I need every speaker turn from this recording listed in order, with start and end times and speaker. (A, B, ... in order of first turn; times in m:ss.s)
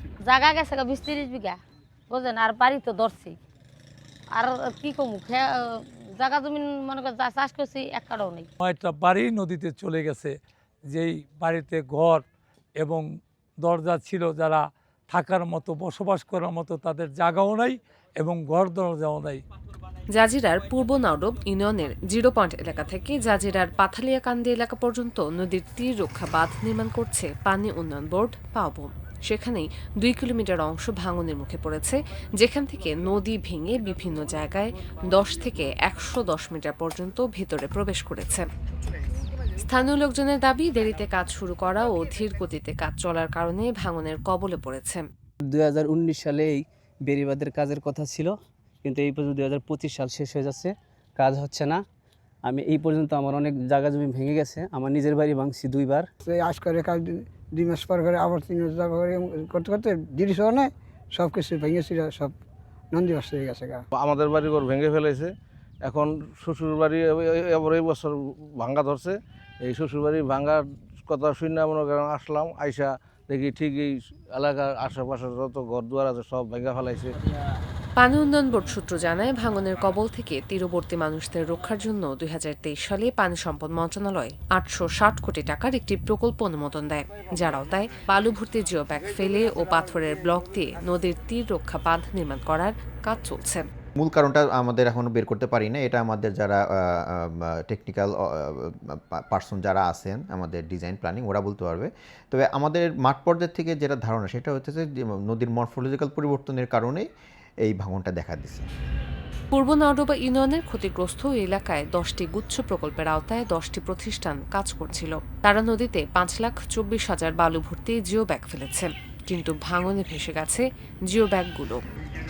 0:00.3-0:01.6 A
0:02.1-0:03.4 A
0:04.4-0:08.5 A
0:08.6-0:10.4 B
0:10.9-0:12.2 B
0:12.8-0:13.1 B
0:13.6-0:19.4 B
0:20.1-0:38.5 C
0:39.6-0:45.0 C
0:45.5-0:48.3 D
0:48.8-0:51.8 D
0:52.5-0:56.1 D
0:56.2-1:02.4 E
1:02.9-1:03.8 E
1:03.9-1:05.3 F
1:05.8-1:17.1 F
1:18.0-1:33.6 C
1:34.0-1:47.1 G
1:47.6-1:48.7 G
1:49.5-2:01.8 C